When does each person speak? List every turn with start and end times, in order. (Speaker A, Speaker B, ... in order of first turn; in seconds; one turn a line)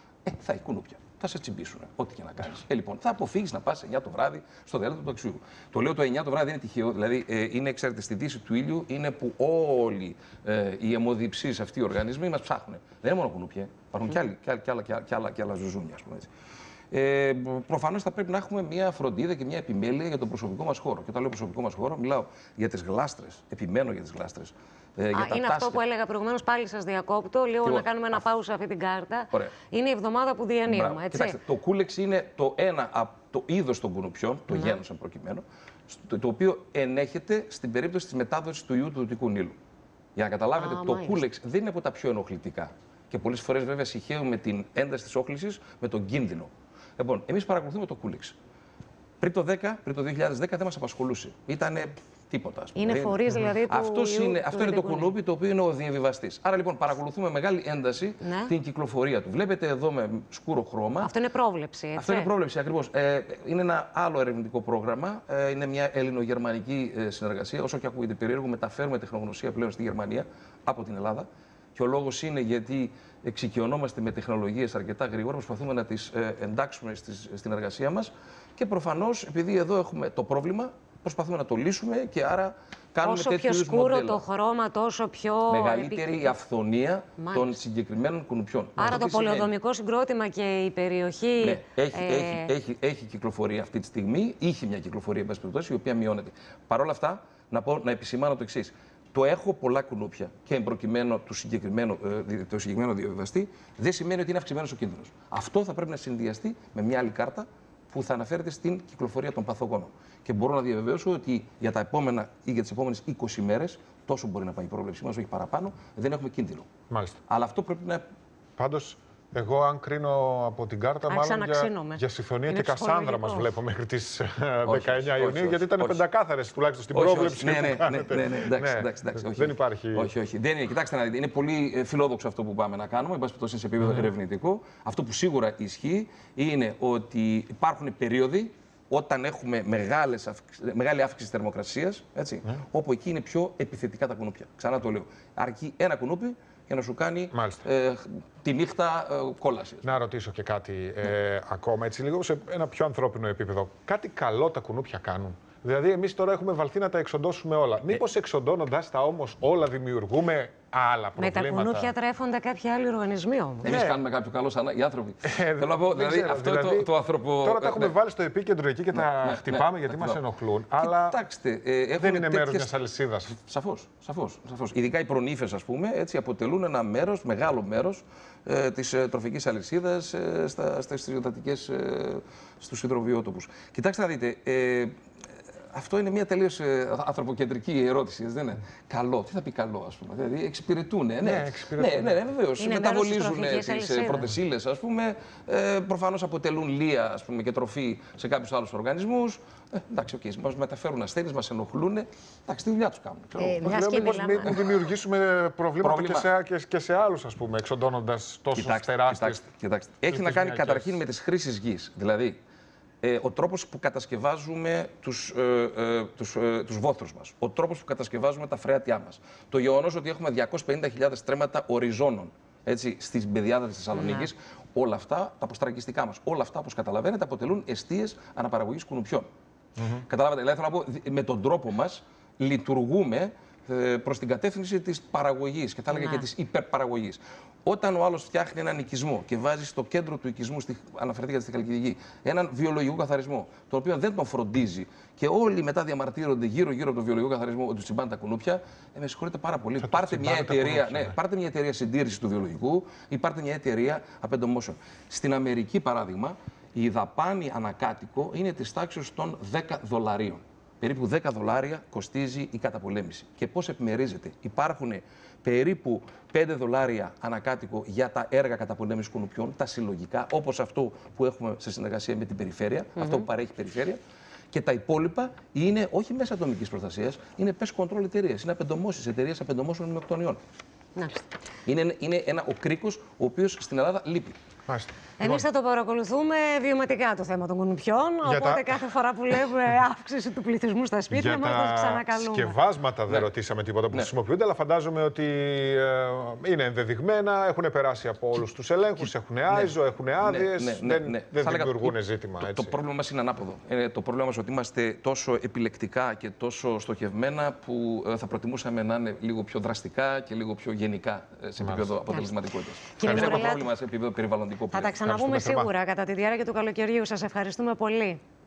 Speaker A: 0.2-16.3
Speaker A: 16.9-25.8
Speaker B: 25.1-31.4
Speaker A: 27.6-28.2
Speaker A: 30.6-39.6
Speaker B: 34.5-34.8
Speaker A: 40.1-48.4
Speaker B: 40.6-41.2
Speaker A: 49.2-61.1
Speaker B: 52.8-55.1
Speaker B: 58.2-58.5
Speaker B: 61.0-62.3
Speaker A: 62.0-84.2
Speaker B: 83.0-86.3
Speaker A: 85.5-89.5
Speaker B: 87.2-87.5
Speaker B: 88.8-92.5
Speaker A: 91.4-116.7
Speaker C: 116.9-117.2
Speaker A: 117.3-118.0
Speaker C: 118.6-130.1
Speaker B: 121.1-123.5
Speaker A: 124.6-126.0
Speaker A: 126.9-149.9
Speaker C: 147.3-147.6
Speaker C: 149.8-161.9
Speaker B: 161.2-163.7
Speaker C: 163.6-164.0
Speaker A: 163.6-167.9
Speaker C: 165.2-171.2
Speaker A: 168.9-170.2
Speaker A: 170.8-172.7
Speaker C: 172.0-173.4
Speaker A: 173.4-184.9
Speaker A: 185.7-203.9
Speaker C: 191.2-192.2
Speaker B: 192.6-194.3
Speaker B: 203.4-204.5
Speaker C: 203.4-209.4
Speaker A: 205.8-206.3
Speaker A: 208.5-212.4
Speaker C: 210.1-211.0
Speaker A: 213.0-229.3
Speaker B: 223.9-224.3
Speaker C: 229.8-230.0
Speaker A: 230.1-274.0
Speaker B: 235.9-236.2
Speaker C: 249.8-251.2
Speaker B: 273.0-273.2
Speaker A: 274.5-280.4
Speaker B: 280.9-281.2
Speaker A: 281.6-284.4
Speaker C: 284.7-285.4
Speaker B: 285.2-292.6
Speaker C: 288.2-288.7
Speaker C: 291.1-302.8
Speaker A: 299.0-315.0
Speaker C: 311.6-311.9
Speaker B: 312.9-313.7
Speaker C: 313.0-313.4
Speaker B: 314.7-318.2
Speaker C: 315.0-315.7